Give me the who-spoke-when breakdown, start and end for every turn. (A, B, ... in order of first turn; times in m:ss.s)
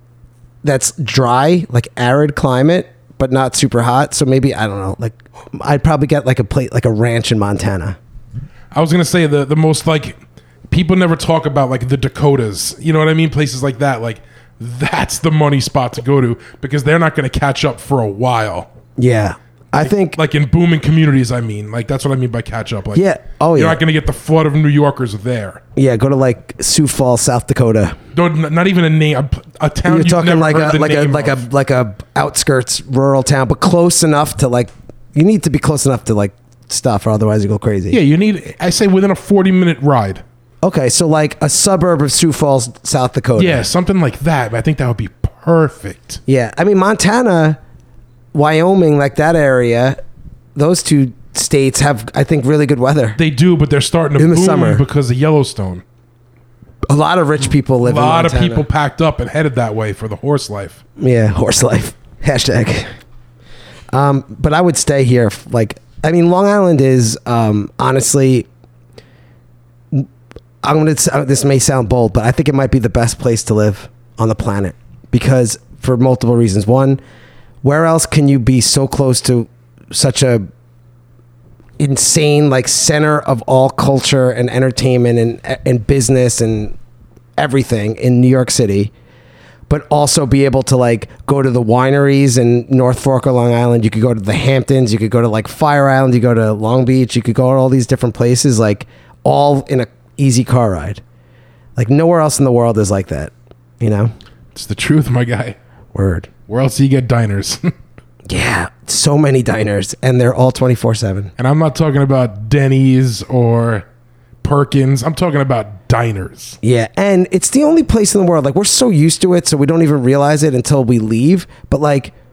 0:00.6-0:08.0 A
0:08.7-0:18.7 B
0:19.0-0:20.2 A
0:19.8-0:25.6 B
0:22.9-0:23.8 A
0:25.8-0:28.0 A
0:28.1-0:31.4 B
0:29.9-0:38.0 A
0:37.9-0:40.2 B
0:40.6-0:43.6 A
0:43.4-0:46.2 B
0:46.3-0:47.6 A
0:48.3-0:50.0 A
0:50.6-0:53.2 A
0:53.2-0:55.8 B
0:54.2-0:54.8 A
0:56.9-0:58.7 A
0:57.8-1:00.8 B
1:01.0-1:02.9 A
1:03.9-1:08.5 A
1:10.6-1:17.0 A
1:17.6-1:20.5 A
1:21.8-1:26.8 A
1:27.4-1:28.9 A
1:29.7-1:41.0 A
1:41.8-1:44.1 A
1:44.6-1:45.6 B
1:45.9-1:46.3 A
1:46.5-1:47.7 B
1:48.3-1:51.3 A
1:51.4-1:53.8 B
1:54.4-1:56.6 B
1:56.6-2:02.1 A